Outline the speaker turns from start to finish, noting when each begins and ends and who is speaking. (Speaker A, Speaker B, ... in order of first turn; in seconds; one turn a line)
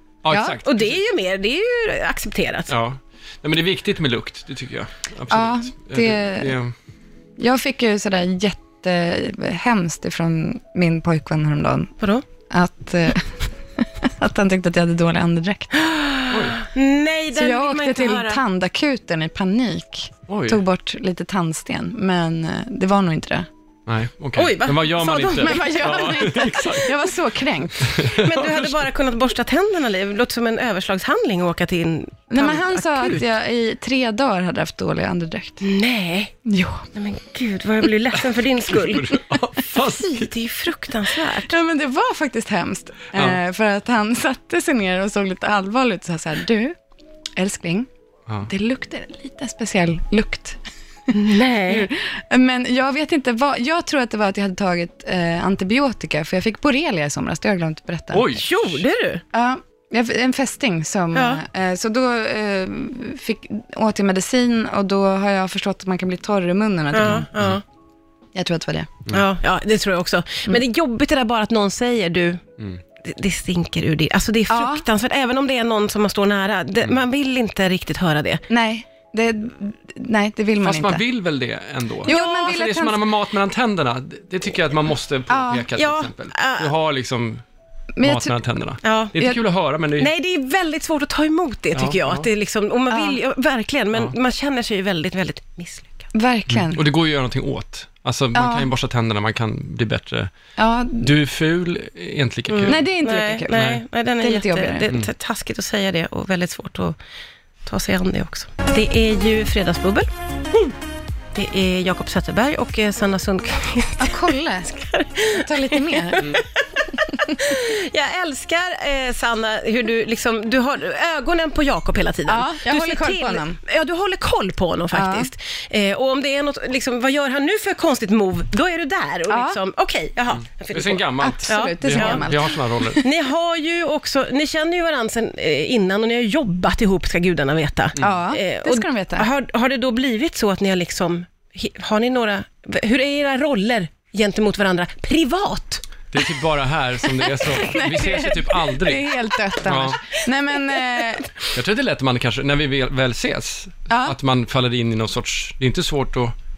Speaker A: 0.2-1.0
Speaker B: 0.3-0.6
Speaker C: 0.6-2.7
Speaker A: 2.7-6.7
Speaker B: 5.3-6.6
Speaker B: 7.4-11.9
Speaker B: 12.5-15.9
Speaker C: 15.8-18.4
Speaker A: 16.3-16.6
Speaker B: 17.4-23.5
Speaker A: 20.3-20.6
Speaker A: 23.9-27.0
Speaker C: 24.4-26.2
Speaker B: 25.4-28.1
Speaker A: 27.8-28.9
Speaker C: 28.1-33.2
Speaker B: 32.3-35.6
Speaker C: 35.6-36.4
Speaker B: 36.5-36.9
Speaker C: 36.9-39.2
Speaker A: 38.7-40.3
Speaker C: 40.0-41.5
Speaker B: 41.5-46.8
Speaker A: 43.1-43.4
Speaker B: 47.4-47.9
Speaker B: 48.5-50.6
Speaker C: 51.1-51.9
Speaker B: 51.1-58.4
Speaker A: 58.1-58.9
Speaker C: 58.4-59.2
Speaker B: 59.3-67.3
Speaker C: 61.1-61.4
Speaker C: 66.9-67.6
Speaker A: 67.1-67.6
Speaker B: 68.3-68.9
Speaker C: 69.1-72.5
Speaker C: 73.0-78.4
Speaker B: 74.5-74.8
Speaker B: 78.5-81.0
Speaker A: 80.6-87.4
Speaker B: 82.0-83.0
Speaker C: 82.1-82.6
Speaker B: 85.3-85.7
Speaker C: 85.8-86.7
Speaker B: 88.0-88.4
Speaker A: 88.0-90.1
Speaker C: 88.8-89.2
Speaker C: 90.0-96.1
Speaker A: 91.7-92.3
Speaker B: 92.9-93.2
Speaker B: 96.1-96.8
Speaker A: 96.5-100.3
Speaker B: 98.3-98.7
Speaker B: 100.6-101.1
Speaker A: 101.0-102.8
Speaker C: 102.5-107.0
Speaker B: 102.7-103.6
Speaker A: 103.5-103.8
Speaker B: 104.2-104.9
Speaker C: 107.7-110.7
Speaker C: 111.3-116.6
Speaker B: 114.0-116.4
Speaker B: 117.1-117.5
Speaker C: 117.3-132.3
Speaker B: 122.3-123.6
Speaker B: 124.9-125.3
Speaker B: 129.3-129.6
Speaker A: 130.7-133.0
Speaker B: 131.2-133.1
Speaker C: 133.0-145.8
Speaker B: 138.0-139.3
Speaker A: 146.1-149.1
Speaker B: 147.1-151.5
Speaker A: 149.6-150.0
Speaker A: 151.5-156.3
Speaker B: 153.9-154.1